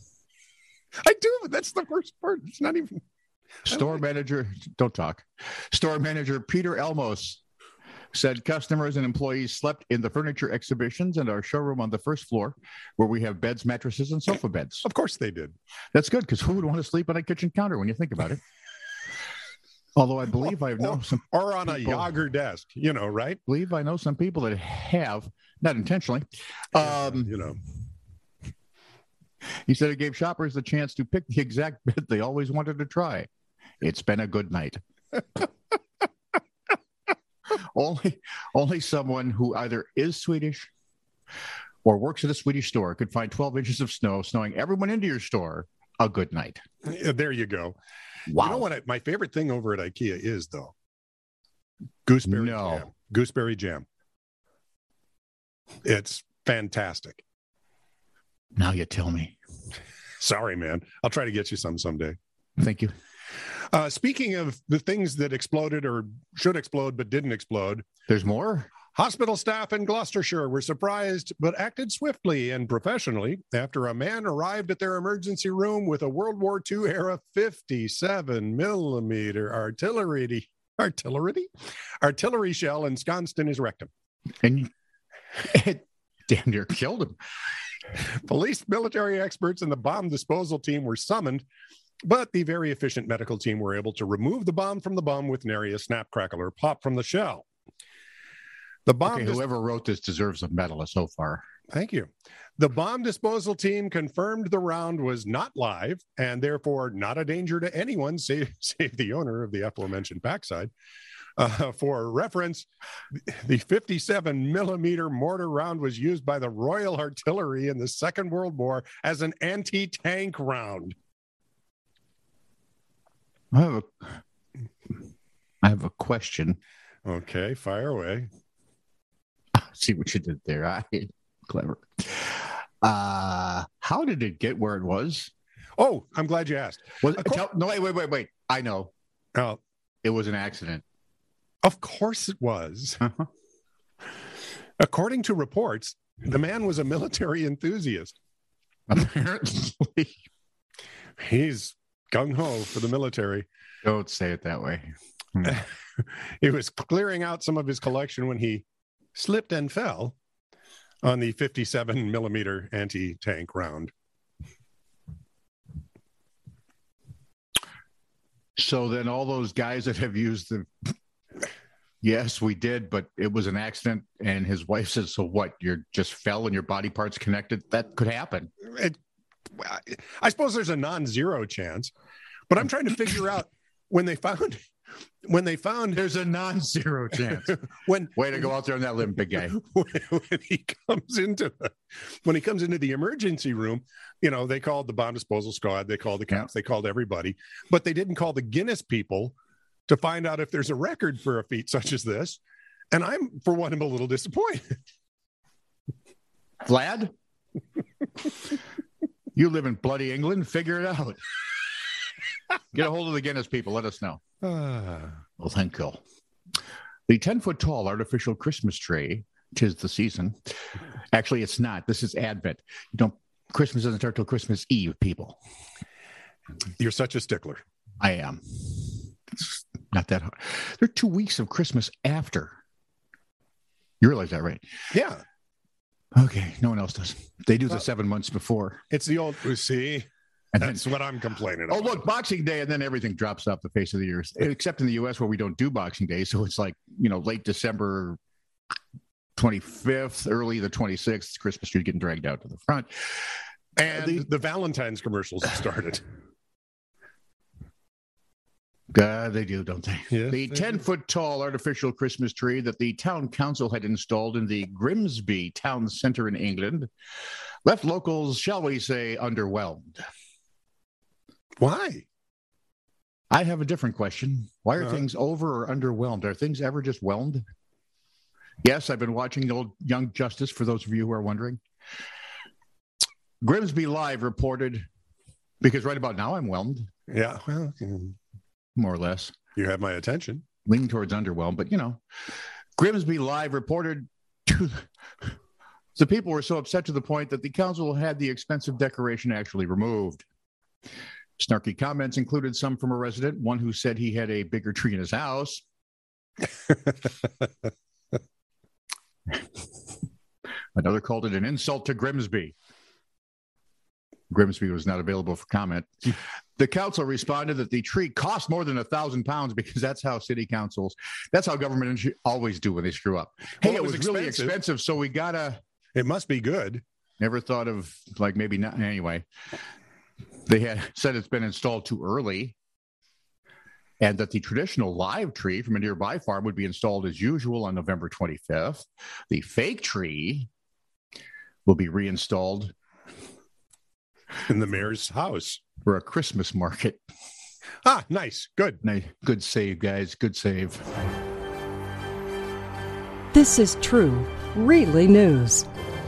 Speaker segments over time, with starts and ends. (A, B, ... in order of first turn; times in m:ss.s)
0:01.0-0:03.0 A
0:03.7-0:07.4 B
0:08.1-0:14.9 B
0:14.8-0:15.6 A
0:15.9-0:18.4 B
0:20.0-0:22.1 B
0:20.8-0:23.4 A
0:23.5-0:27.3 B
0:26.8-0:27.6 A
0:29.7-0:33.3 B
0:33.8-0:35.5 B
0:37.7-0:40.7 B
0:41.8-0:46.6 B
0:46.8-0:47.8 A
0:48.3-0:48.7 B
0:48.3-0:50.7 A
0:52.1-0:53.9 A
0:52.2-0:52.9 B
0:55.8-0:57.2 A
0:58.6-0:59.4 B
1:00.2-1:02.2 A
1:02.6-1:02.9 B
1:03.7-1:07.8 A
1:08.1-1:08.7 B
1:08.9-1:21.5 A
1:22.0-1:23.9 A
1:24.4-1:24.7 B
1:25.4-1:27.2 B
1:28.0-1:31.4 A
1:32.0-1:37.4 A
1:38.9-1:39.4 A
1:39.0-1:41.4 B
1:41.7-1:50.7 A
1:51.4-2:01.0 A
2:03.5-2:04.2 B
2:05.6-2:06.6 B
2:07.0-2:08.3 A
2:09.5-2:15.3 B
2:15.8-2:17.4 A
2:17.0-2:18.9 B
2:19.4-2:19.6 A
2:20.0-2:20.8 B
2:21.6-2:23.1 A
2:24.8-2:28.2 A
2:28.9-2:30.2 B
2:31.2-2:33.5 A
2:33.8-2:35.6 B
2:35.4-2:40.2 A
2:41.0-2:43.9 A
2:48.6-2:50.7 B
2:52.0-2:58.5 B
2:58.6-2:59.0 A
2:59.6-3:01.9 A
3:02.5-3:04.6 A
3:05.2-3:06.0 A
3:06.0-3:07.6 B
3:07.3-3:08.4 A
3:08.1-3:09.6 B
3:09.3-3:19.4 A
3:19.9-3:22.4 A
3:22.9-3:24.8 A
3:26.6-3:27.1 B
3:29.4-3:31.2 B
3:32.7-3:34.2 B
3:34.4-3:35.2 A
3:35.4-3:36.0 B
3:37.1-3:40.4 B
3:41.1-3:45.4 B
3:46.8-3:47.6 A
3:48.0-3:52.6 B
3:54.0-3:54.6 B
3:54.9-3:55.2 A
3:56.2-3:58.8 B
3:58.9-4:02.1 A
4:00.5-4:00.9 B
4:01.7-4:08.2 B
4:09.4-4:13.3 B
4:13.8-4:16.0 A
4:13.9-4:14.2 B
4:18.9-4:26.9 B
4:20.1-4:20.8 A
4:27.6-4:30.0 B
4:31.6-4:32.1 A
4:33.3-4:37.4 B
4:38.6-4:41.6 B
4:43.4-4:44.9 B
4:45.6-4:46.9 B
4:47.1-4:48.2 A
4:48.8-4:49.3 B
4:49.6-4:50.5 A
4:50.6-4:52.0 B
4:52.8-4:54.8 B
4:56.0-5:00.2 B
5:01.4-5:05.6 B
5:10.8-5:12.6 B
5:14.3-5:25.6 B
5:23.6-5:24.6 A
5:26.0-5:26.8 A
5:27.2-5:29.3 B
5:30.5-5:32.6 B
5:34.0-5:40.5 B
5:41.7-5:42.7 B
5:44.5-5:45.6 A
5:45.8-5:47.0 B
5:47.8-5:48.8 A
5:48.8-5:50.9 B
5:53.3-5:55.7 C